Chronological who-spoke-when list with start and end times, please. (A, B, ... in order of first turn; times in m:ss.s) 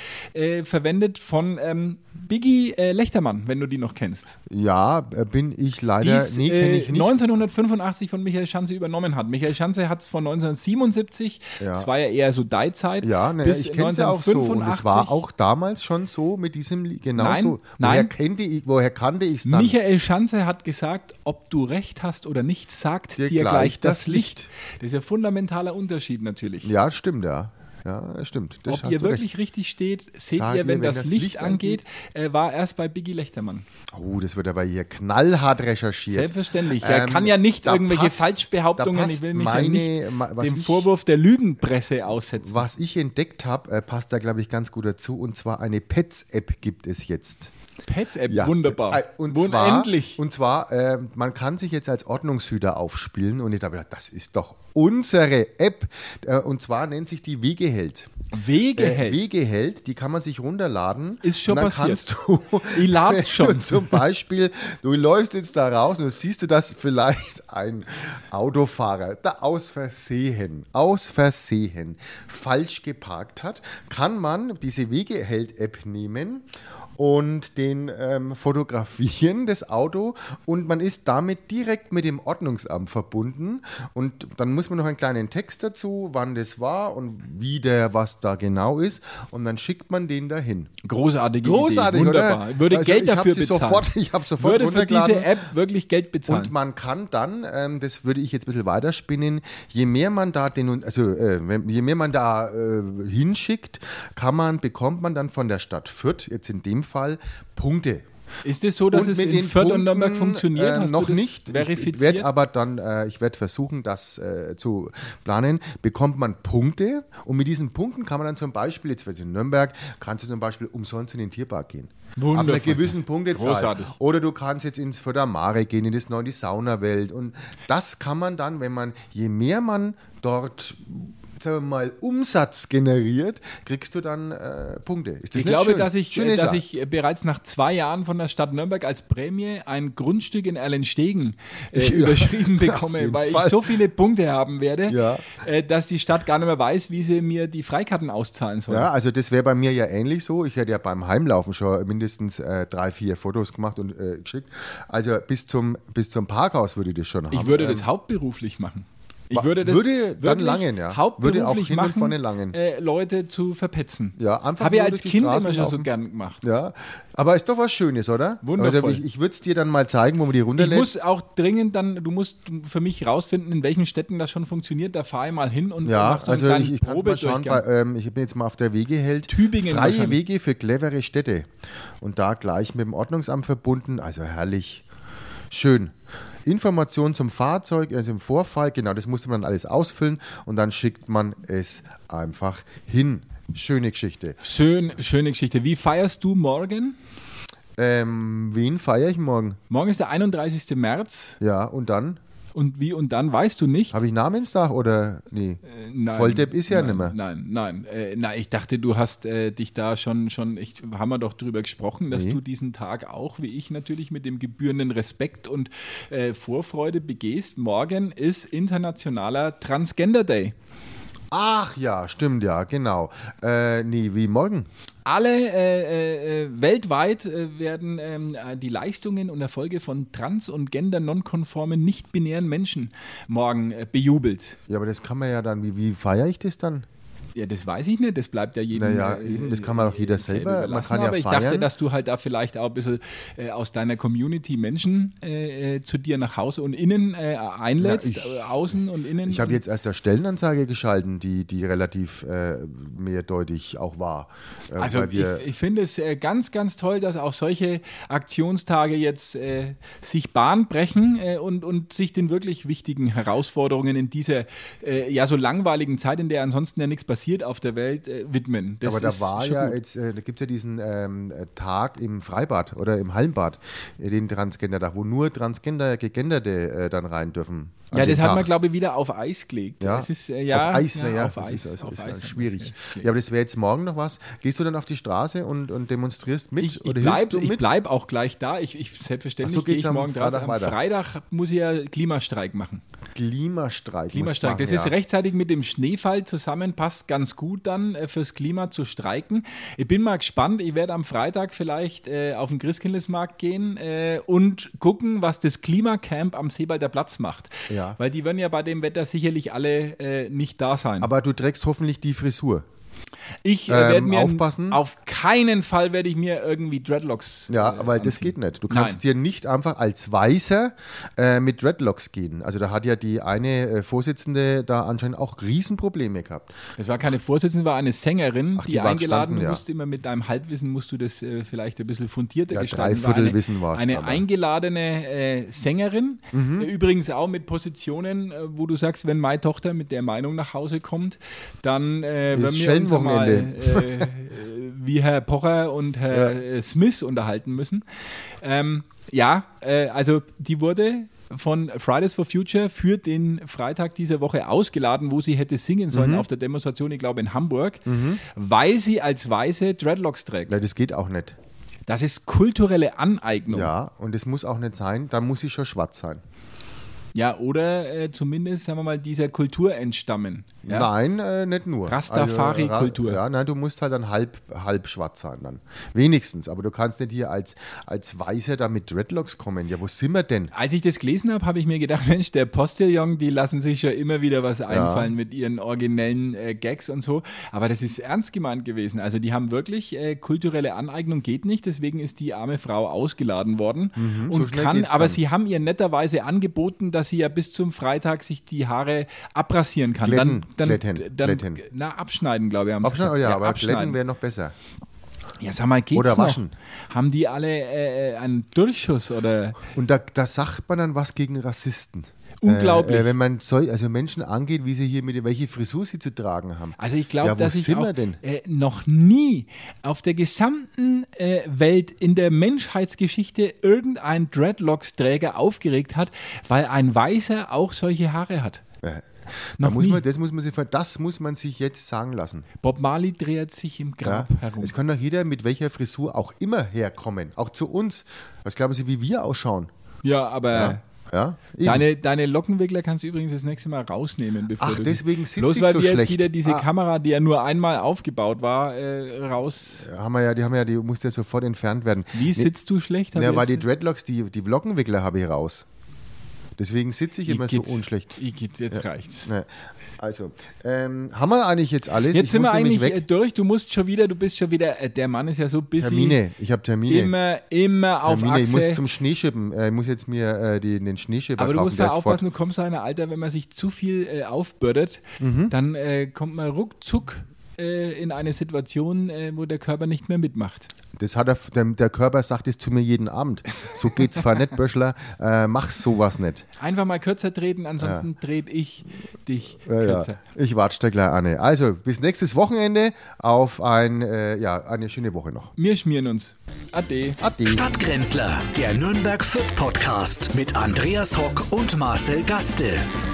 0:00.3-0:04.3 A
0:04.5-0:07.2 B
0:06.0-0:15.2 A
0:11.6-0:11.9 B
0:13.0-0:19.8 B
0:17.2-0:18.1 A
0:19.4-0:26.7 A
0:23.2-0:24.5 B
0:26.6-0:29.2 B
0:28.7-0:33.6 A
0:30.3-0:31.8 B
0:33.9-0:40.9 B
0:36.1-0:42.6 A
0:42.4-0:47.5 B
0:47.9-0:50.2 A
0:48.3-0:58.1 B
0:58.3-0:59.2 A
0:58.7-1:30.7 B
1:01.2-1:02.0 A
1:02.7-1:04.0 A
1:30.8-1:36.5 A
1:31.4-1:35.3 B
1:36.3-1:48.0 B
1:48.4-1:52.3 A
1:48.9-2:16.6 B
2:02.2-2:03.9 A
2:15.3-2:28.9 A
2:21.7-2:23.8 B
2:24.9-2:25.4 B
2:28.7-2:37.9 B
2:37.3-2:46.4 A
2:39.3-2:42.6 B
2:44.2-2:45.9 B
2:46.4-2:50.9 B
2:48.4-2:49.0 A
2:50.6-2:57.6 A
2:55.8-3:01.5 B
2:59.3-3:00.2 A
3:02.0-3:04.8 B
3:05.5-3:05.9 B
3:06.4-3:14.4 B
3:14.4-3:17.0 A
3:17.8-3:19.6 B
3:19.7-3:21.4 A
3:21.4-3:22.2 B
3:22.5-3:24.0 A
3:23.9-3:27.2 B
3:25.7-3:40.5 A
3:32.1-3:32.4 B
3:41.3-3:44.7 B
3:45.0-3:54.6 A
3:54.7-3:56.8 B
3:57.4-4:09.6 A
3:58.7-4:01.7 B
4:07.8-4:08.5 B
4:09.2-4:15.4 B
4:14.8-4:29.8 A
4:28.8-4:38.5 B
4:37.9-4:43.1 A
4:39.8-4:47.7 B
4:46.6-4:52.8 A
4:49.4-4:50.8 B
4:53.1-4:54.9 B
4:54.1-5:11.1 A
5:07.7-5:08.0 B
5:11.0-5:12.6 B
5:13.4-5:19.0 A
5:13.7-5:14.8 B
5:17.5-5:26.5 B
5:26.8-5:47.8 A
5:28.6-5:29.6 B
5:32.5-5:34.2 B
5:36.3-5:36.7 B
5:42.3-5:44.1 B
5:48.4-6:00.5 A
5:55.9-5:56.2 B
5:57.8-5:58.2 B
6:00.5-6:01.4 B
6:01.9-6:03.7 A
6:03.5-6:06.2 B
6:07.1-6:10.9 A
6:10.6-6:20.5 B
6:11.9-6:13.2 A
6:20.5-6:44.0 A
6:24.7-6:25.1 B
6:34.0-6:35.2 B
6:40.0-6:41.6 B
6:42.8-6:44.5 B
6:45.4-6:49.6 A
6:45.9-6:46.5 B
6:49.7-6:58.2 B
6:52.4-6:53.1 A
6:56.8-7:08.6 A
7:08.8-7:12.4 B
7:09.6-7:10.0 A
7:12.6-7:14.7 A
7:14.0-7:19.7 B
7:20.0-7:20.8 A
7:20.5-7:21.8 B
7:21.6-7:29.8 A
7:24.6-7:26.7 B
7:29.8-7:32.5 B
7:32.1-7:33.6 A
7:33.1-7:35.6 B
7:36.6-7:38.1 B
7:37.2-7:39.3 A
7:38.7-7:43.0 B
7:42.1-7:46.2 A
7:45.8-7:47.1 B
7:46.9-7:48.8 A
7:48.0-7:52.2 B
7:51.4-8:00.7 A
7:55.2-7:55.5 B
8:01.0-8:06.4 B
8:06.6-8:10.2 A
8:07.8-8:08.1 B
8:09.6-8:15.5 B
8:15.6-8:17.2 A
8:17.2-8:17.7 B
8:17.4-8:22.9 C